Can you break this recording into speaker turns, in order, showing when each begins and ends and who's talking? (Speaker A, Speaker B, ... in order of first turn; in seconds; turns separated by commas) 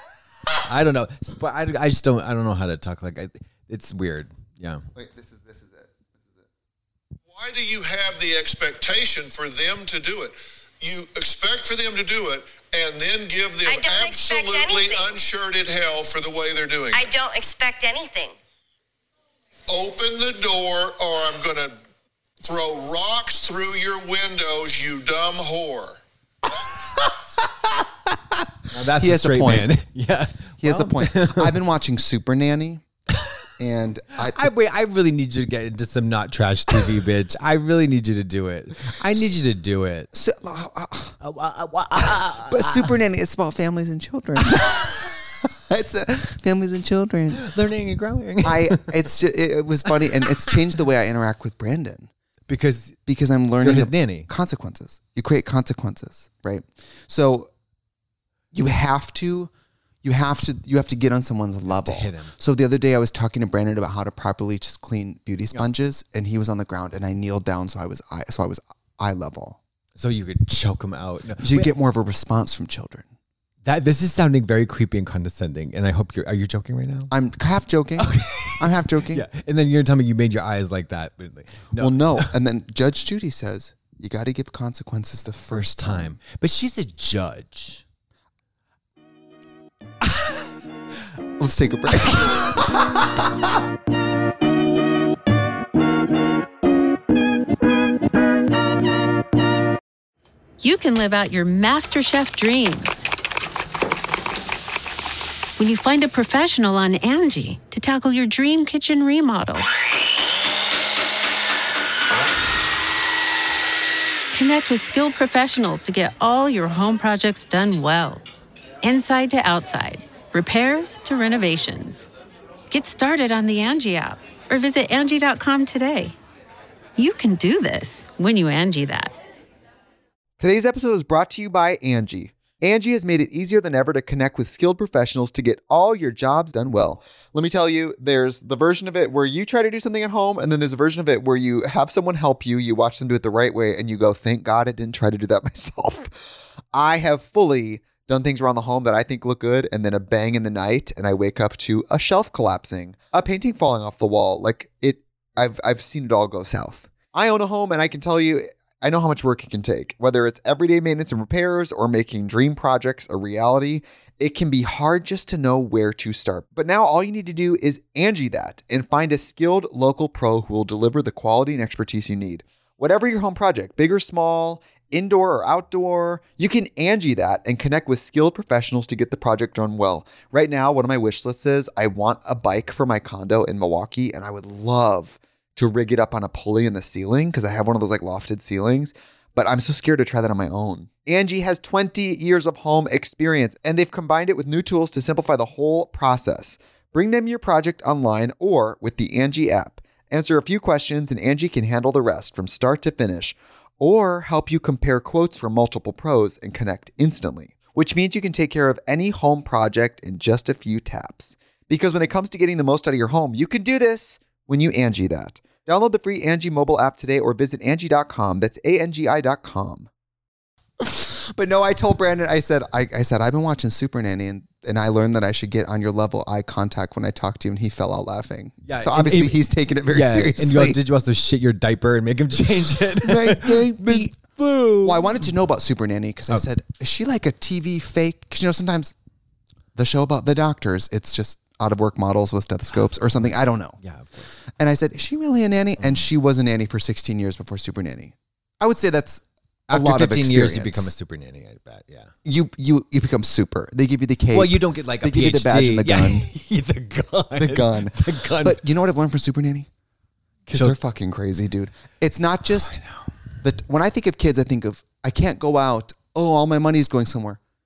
Speaker A: 0.6-4.8, Speaker B: 4.9-6.5, Speaker C: 7.3-17.1, Speaker D: 13.7-15.2, Speaker D: 16.9-18.4, Speaker C: 19.7-21.7, Speaker C: 22.4-26.0, Speaker A: 26.6-31.6, Speaker B: 28.9-29.7, Speaker B: 30.6-32.8, Speaker A: 33.1-33.4, Speaker B: 33.6-34.5, Speaker A: 34.2-40.1, Speaker B: 40.1-41.2, Speaker A: 41.2-42.9, Speaker B: 42.0-47.5, Speaker A: 47.3-48.9, Speaker B: 48.4-52.1, Speaker A: 50.2-50.6, Speaker A: 52.5-53.0, Speaker B: 53.1-57.5, Speaker A: 53.6-54.3, Speaker B: 58.5-59.5, Speaker B: 60.0-69.6, Speaker A: 61.7-62.3, Speaker A: 70.0-71.7, Speaker B: 71.4-73.1, Speaker A: 73.7-77.1, Speaker B: 77.1-79.2, Speaker A: 78.0-82.3, Speaker B: 81.8-86.2, Speaker A: 85.5-87.8, Speaker B: 91.4-92.8, Speaker E: 100.6-103.1, Speaker E: 105.6-109.7, Speaker E: 114.3-118.2, Speaker E: 118.8-122.1, Speaker E: 122.7-126.2, Speaker E: 127.0-129.1, Speaker B: 130.4-146.2, Speaker B: 146.7-219.9, Speaker B: 220.8-230.8, Speaker A: 228.7-235.2, Speaker B: 233.0-234.2, Speaker B: 234.8-238.9, Speaker B: 239.8-243.8, Speaker A: 243.2-244.3, Speaker B: 244.6-250.9, Speaker A: 249.7-252.1, Speaker B: 252.2-256.3, Speaker A: 254.3-258.6, Speaker B: 257.4-259.7, Speaker B: 260.5-262.8, Speaker A: 260.5-260.8, Speaker A: 262.7-263.1, Speaker B: 263.4-267.4